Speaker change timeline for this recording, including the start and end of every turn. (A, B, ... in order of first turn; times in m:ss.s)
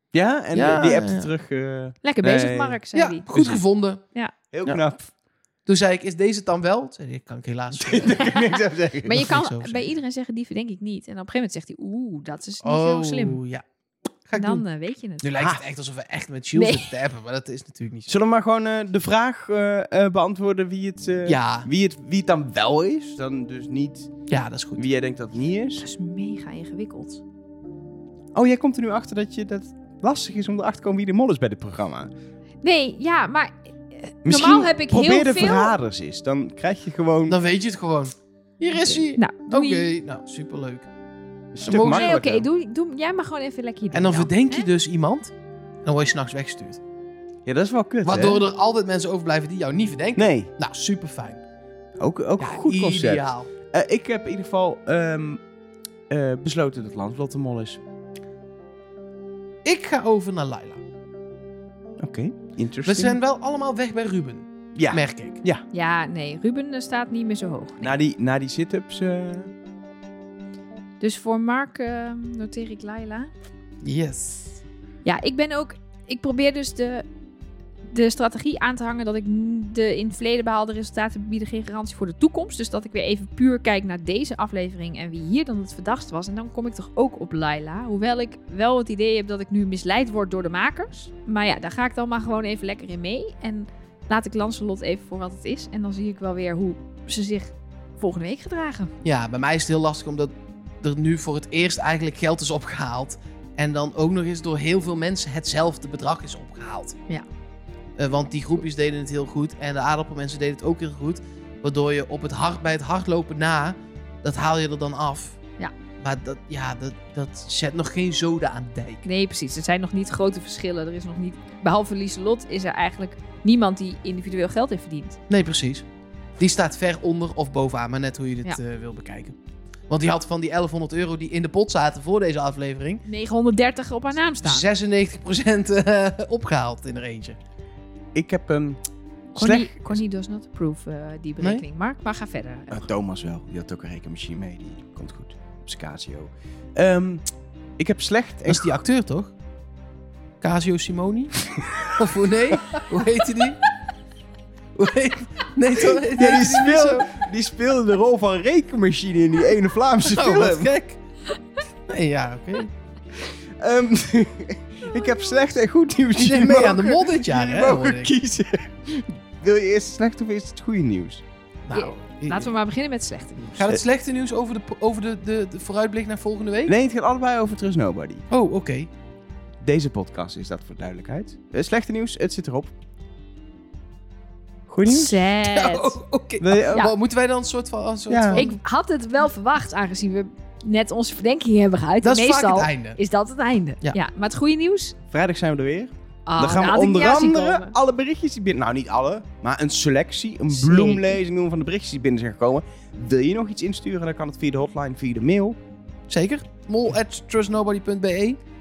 0:00.1-0:02.8 A
0:00.5-0:01.3 B
0:02.0-0:03.3 C
0:02.9-0:04.0 B
0:03.3-0:03.6 A
0:04.5-0:05.1 A
0:05.7-0:08.3 B
0:07.7-0:09.4 A
0:09.0-0:13.4 C
0:09.2-0:09.8 B
0:12.6-0:13.6 B
0:14.3-0:14.6 B
0:14.4-0:15.3 C
0:15.2-0:18.1 B
0:16.6-0:16.9 C
0:18.1-0:24.1 A
0:21.3-0:21.7 B
0:24.3-0:24.8 B
0:24.8-0:25.8 A
0:25.8-0:27.2 C
0:28.4-0:32.1 A
0:32.6-0:35.7 C
0:34.2-0:37.4 A
0:37.3-0:40.9 B
0:38.9-0:39.9 C
0:41.5-0:42.5 A
0:41.6-0:42.1 B
0:41.8-0:44.7 C
0:43.9-0:45.3 B
0:45.8-0:46.8 B
0:47.5-0:48.4 A
0:48.0-0:51.4 B
0:50.2-0:50.5 A
0:52.0-0:55.4 A
0:52.4-0:53.5 B
0:56.1-0:57.8 A
0:59.6-1:00.8 B
1:02.0-1:03.2 A
1:02.8-1:05.4 B
1:04.8-1:05.6 A
1:05.7-1:07.9 C
1:07.8-1:09.5 A
1:11.0-1:13.3 C
1:13.8-1:14.6 B
1:15.0-1:17.0 C
1:17.9-1:38.9 C
1:39.0-1:47.0 B
1:48.0-1:55.4 B
1:56.0-1:59.0 B
1:59.0-2:05.2 C
2:05.3-2:05.8 B
2:06.4-2:09.4 B
2:09.9-2:13.0 B
2:13.1-2:14.6 C
2:14.4-2:17.4 B
2:18.2-2:18.8 A
2:19.3-2:20.0 A
2:19.4-2:22.9 C
2:21.4-2:21.6 B
2:22.7-2:27.2 A
2:27.8-2:28.7 A
2:28.5-2:29.3 B
2:30.4-2:33.6 B
2:31.6-2:31.9 A
2:34.8-2:37.2 B
2:35.7-2:40.7 A
2:40.0-2:41.0 B
2:41.9-2:42.7 B
2:43.2-2:51.2 A
2:46.2-2:48.1 B
2:51.7-2:52.5 B
2:51.7-2:53.7 C
2:53.6-2:56.7 B
2:56.7-2:58.2 A
2:58.3-2:58.9 B
2:59.6-3:02.7 A
3:04.7-3:05.2 A
3:04.8-3:06.0 C
3:05.4-3:08.6 B
3:06.4-3:06.9 A
3:08.1-3:08.5 A
3:08.3-3:15.0 C
3:12.0-3:13.0 B
3:15.1-3:25.6 A
3:16.3-3:17.8 C
3:20.5-3:21.2 C
3:26.1-3:28.4 B